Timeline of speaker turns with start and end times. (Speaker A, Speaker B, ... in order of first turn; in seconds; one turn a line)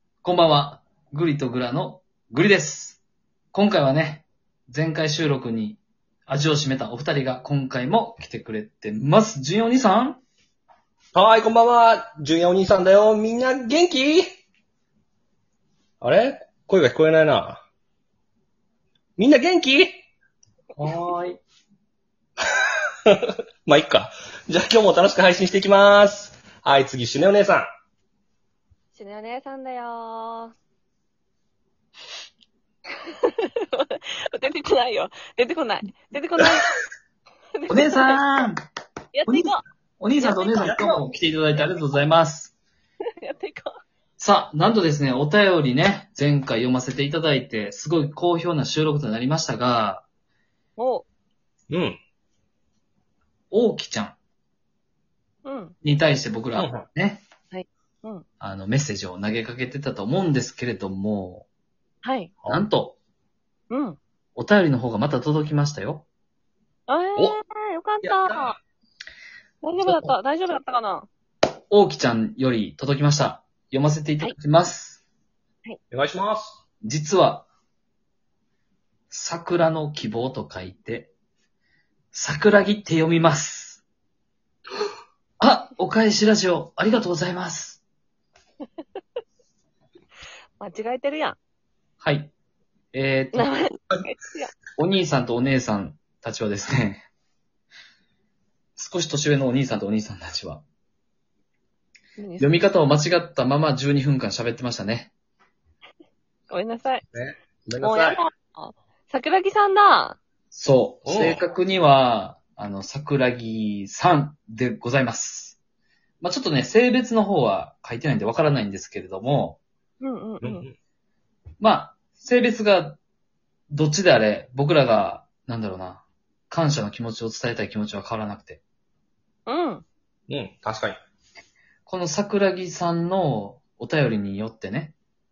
Speaker A: 0.2-3.0
Speaker A: 3.5-10.2
Speaker B: 11.1-14.3
Speaker B: 16.0-17.6
Speaker B: 19.2-20.0
Speaker A: 20.8-21.4
Speaker B: 23.1-27.7
Speaker C: 28.9-30.5
Speaker C: 33.1-36.8
Speaker C: 37.5-38.2
Speaker A: 37.7-38.6
Speaker C: 39.1-39.6
Speaker A: 39.3-42.5
Speaker C: 40.2-41.0
Speaker C: 43.2-43.8
Speaker A: 44.2-50.0
Speaker C: 50.8-51.1
Speaker B: 51.7-52.0
Speaker A: 53.5-54.2
Speaker C: 55.5-55.8
Speaker A: 55.8-57.2
Speaker B: 56.6-56.9
Speaker C: 57.5-58.2
Speaker A: 58.4-61.5
Speaker C: 62.0-62.3
Speaker A: 62.5-63.0
Speaker C: 63.7-64.0
Speaker A: 64.4-66.1
Speaker C: 66.9-68.6
Speaker B: 68.0-68.5
Speaker C: 69.6-71.1
Speaker B: 69.8-70.2
Speaker A: 71.7-75.0
Speaker B: 75.9-76.6
Speaker A: 76.8-77.5
Speaker A: 79.1-81.1
Speaker A: 82.1-83.8
Speaker A: 85.4-87.8
Speaker C: 90.6-91.4
Speaker A: 92.0-92.3
Speaker A: 92.9-93.5
Speaker C: 93.3-94.5
Speaker A: 94.8-97.0
Speaker A: 98.8-100.6
Speaker C: 102.2-102.6
Speaker A: 102.4-105.1
Speaker C: 106.5-107.0
Speaker B: 107.1-108.2
Speaker C: 107.8-110.2
Speaker A: 110.5-115.6
Speaker B: 111.0-111.4
Speaker A: 116.2-119.6
Speaker C: 120.0-120.7
Speaker B: 120.4-120.8
Speaker A: 121.6-123.0
Speaker A: 123.7-128.6
Speaker C: 129.5-129.8
Speaker B: 130.3-131.0
Speaker A: 131.9-134.9